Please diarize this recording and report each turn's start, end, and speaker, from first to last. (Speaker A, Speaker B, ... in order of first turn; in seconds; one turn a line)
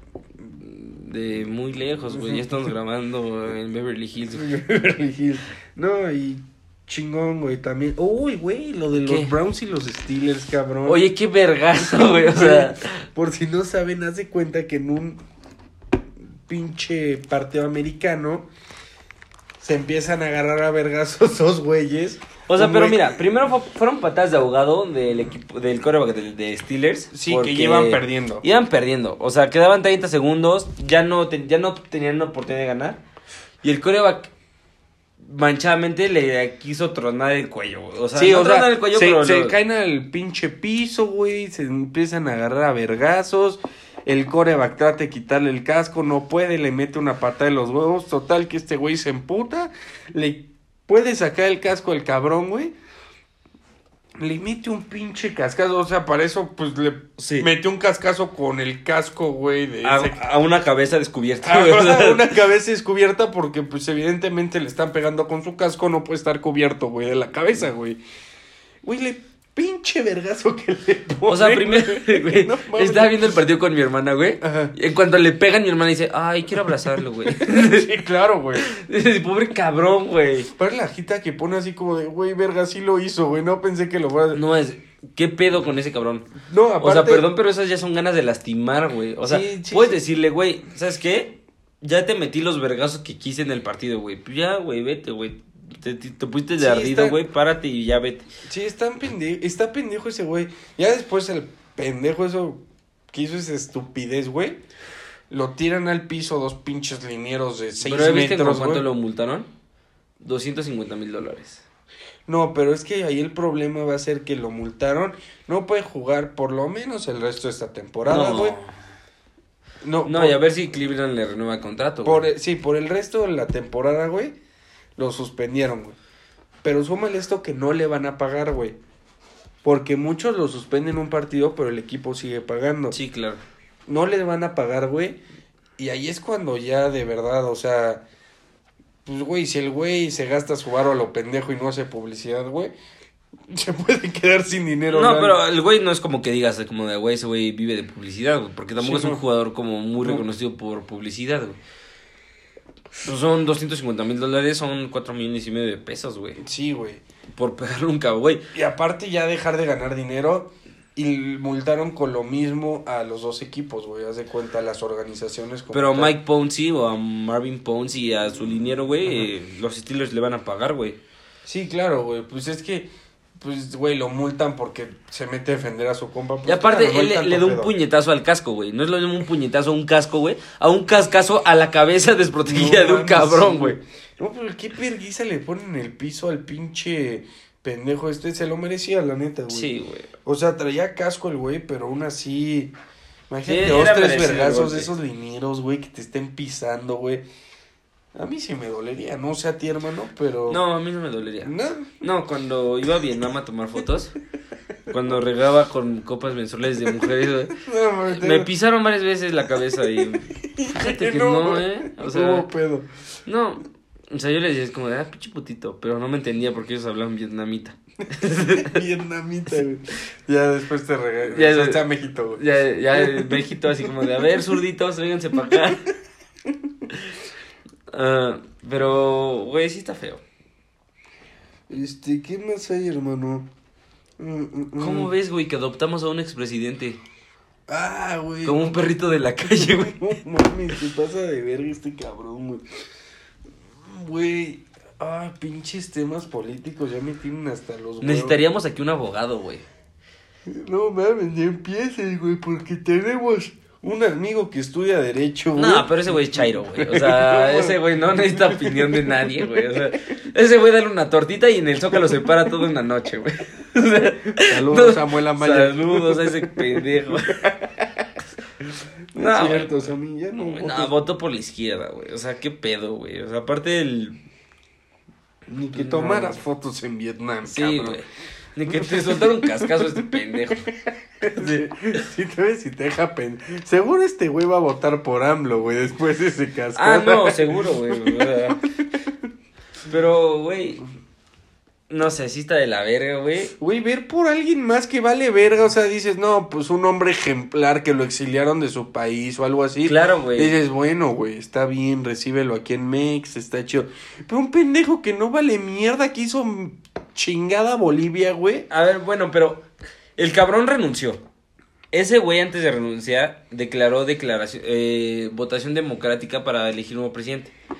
Speaker A: 0.5-4.5
Speaker B: 2.1-2.6
Speaker B: 4.3-11.0
Speaker A: 9.0-9.3
Speaker A: 10.8-13.0
Speaker B: 11.8-15.2
Speaker B: 16.5-18.5
Speaker B: 19.6-23.2
Speaker A: 22.5-33.0
Speaker B: 27.1-28.4
Speaker A: 33.6-34.3
Speaker A: 35.2-39.5
Speaker B: 38.1-52.7
Speaker B: 54.2-60.2
Speaker A: 57.2-57.5
Speaker A: 59.8-62.3
Speaker B: 61.4-68.0
Speaker B: 68.8-73.4
Speaker A: 71.3-78.0
Speaker B: 74.4-74.7
Speaker B: 77.2-78.7
Speaker A: 78.6-80.5
Speaker B: 80.5-84.4
Speaker A: 84.3-86.3
Speaker B: 86.5-87.3
Speaker A: 86.8-98.2
Speaker B: 89.2-90.0
Speaker B: 96.6-97.2
Speaker B: 98.5-102.6
Speaker B: 103.1-104.6
Speaker B: 105.3-108.8
Speaker A: 107.8-109.5
Speaker A: 110.2-111.6
Speaker B: 112.3-118.6
Speaker A: 118.0-118.7
Speaker B: 119.8-120.4
Speaker A: 120.0-122.2
Speaker B: 122.0-124.3
Speaker B: 125.0-126.0
Speaker B: 126.6-128.8
Speaker B: 129.6-133.0
Speaker A: 132.9-133.4
Speaker B: 133.9-135.2
Speaker B: 135.8-138.0
Speaker B: 139.1-142.7
Speaker B: 143.5-145.4
Speaker A: 144.9-151.6
Speaker B: 148.8-149.2
Speaker B: 150.0-150.2
Speaker A: 153.0-156.4
Speaker B: 156.4-157.0
Speaker A: 157.3-158.4
Speaker B: 158.5-166.1
Speaker A: 165.7-171.0
Speaker B: 171.4-177.7
Speaker A: 176.4-183.8
Speaker B: 182.4-189.7
Speaker A: 189.5-190.1
Speaker B: 190.2-192.7
Speaker B: 193.3-197.2
Speaker A: 193.4-194.9
Speaker B: 198.1-200.6
Speaker A: 200.5-204.1
Speaker B: 201.4-202.0
Speaker A: 204.9-207.5
Speaker B: 207.5-208.5
Speaker A: 208.1-212.5
Speaker B: 209.9-212.9
Speaker A: 213.2-218.8
Speaker B: 218.2-223.9
Speaker A: 221.3-221.8
Speaker A: 222.4-225.8
Speaker A: 227.9-230.2
Speaker B: 231.7-233.5
Speaker B: 234.2-235.1
Speaker A: 234.8-237.0
Speaker B: 237.7-238.8
Speaker A: 238.4-240.2
Speaker B: 239.5-242.6
Speaker B: 243.8-248.4
Speaker A: 248.0-249.6
Speaker B: 250.5-259.4
Speaker A: 255.6-267.4
Speaker B: 264.4-268.0
Speaker B: 269.1-270.9
Speaker A: 269.1-274.2
Speaker B: 275.5-278.0
Speaker A: 275.7-276.4
Speaker A: 277.4-280.6
Speaker B: 278.7-289.1
Speaker A: 281.3-282.0
Speaker A: 286.8-288.6
Speaker A: 289.9-290.8
Speaker A: 291.9-293.5
Speaker B: 293.6-308.7
Speaker A: 299.8-300.5
Speaker A: 308.7-309.6
Speaker A: 310.2-311.2
Speaker A: 311.9-317.5